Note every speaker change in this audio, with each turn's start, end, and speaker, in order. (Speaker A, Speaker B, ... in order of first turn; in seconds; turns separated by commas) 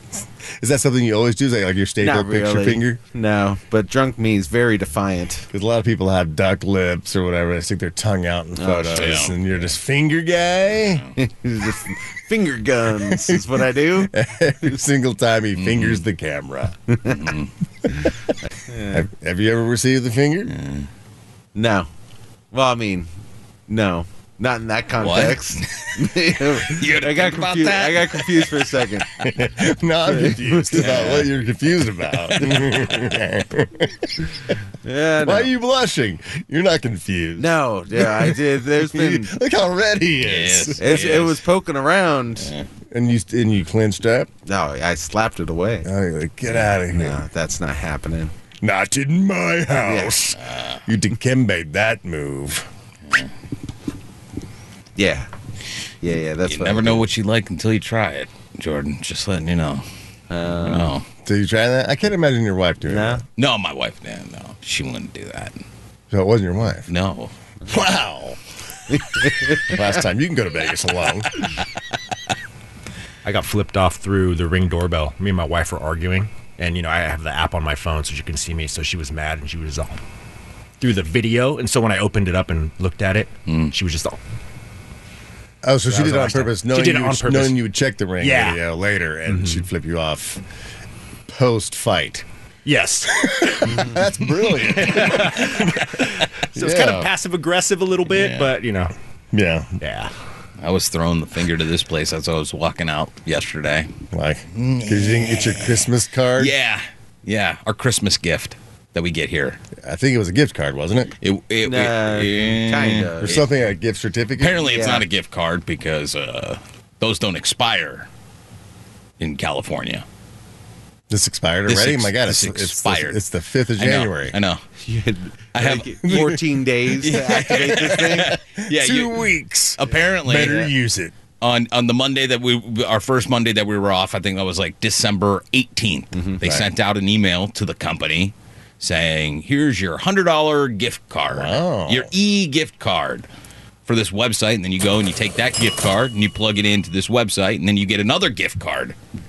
Speaker A: 0.6-3.0, Speaker B: 2.0-5.5, Speaker A: 5.5-11.1, Speaker B: 8.6-9.4, Speaker C: 8.9-9.3, Speaker B: 11.2-14.1, Speaker A: 13.1-13.4, Speaker A: 14.0-16.8, Speaker C: 15.6-16.0, Speaker C: 17.1-17.5, Speaker B: 18.6-19.0, Speaker A: 18.9-20.5, Speaker C: 20.5-20.9, Speaker B: 21.5-21.9, Speaker B: 22.5-23.1, Speaker B: 23.7-29.1, Speaker C: 25.0-26.1, Speaker C: 26.6-28.6, Speaker A: 29.2-34.2, Speaker B: 30.1-31.3, Speaker C: 30.8-31.1, Speaker B: 32.4-32.7, Speaker B: 34.8-35.5, Speaker A: 35.2-41.1, Speaker B: 37.4-39.3, Speaker C: 40.2-41.4, Speaker B: 40.8-42.5, Speaker A: 42.9-44.3, Speaker B: 44.5-45.9, Speaker A: 45.8-47.2, Speaker B: 46.9-48.3, Speaker A: 48.6-52.7, Speaker B: 49.8-50.1, Speaker C: 50.4-50.8, Speaker B: 55.0-55.3, Speaker B: 56.0-57.0, Speaker C: 56.4-59.8, Speaker B: 60.3-60.9, Speaker C: 60.6-61.0, Speaker A: 61.2-63.2, Speaker B: 62.9-63.2, Speaker C: 63.4-65.5, Speaker A: 66.1-66.9, Speaker C: 66.9-67.3, Speaker A: 67.7-68.4, Speaker B: 68.9-69.8, Speaker A: 69.7-71.3, Speaker D: 73.2-80.0, Speaker D: 80.8-84.2, Speaker A: 85.6-90.4, Speaker D: 85.9-87.6, Speaker D: 88.2-88.6, Speaker D: 89.3-89.6, Speaker A: 91.3-92.2, Speaker D: 92.6-93.9, Speaker A: 93.2-95.8, Speaker D: 94.8-98.9, Speaker A: 96.5-97.1, Speaker C: 98.1-98.5, Speaker A: 99.3-99.8, Speaker D: 99.8-100.1, Speaker C: 100.6-103.9, Speaker A: 104.1-106.5, Speaker C: 104.5-105.8, Speaker C: 106.4-109.6, Speaker A: 109.8-111.1, Speaker C: 111.2-113.4, Speaker B: 111.6-113.4, Speaker A: 113.2-114.8, Speaker C: 114.4-118.1, Speaker B: 114.6-115.0, Speaker C: 119.2-120.0, Speaker A: 121.1-124.4, Speaker C: 121.7-123.2, Speaker C: 123.8-124.6, Speaker B: 124.8-128.4, Speaker C: 125.5-126.4, Speaker A: 126.0-126.4, Speaker C: 126.9-129.2, Speaker A: 128.3-131.1, Speaker C: 129.8-130.7, Speaker C: 131.4-143.2, Speaker B: 136.1-136.6, Speaker A: 141.3-142.1, Speaker C: 143.8-148.9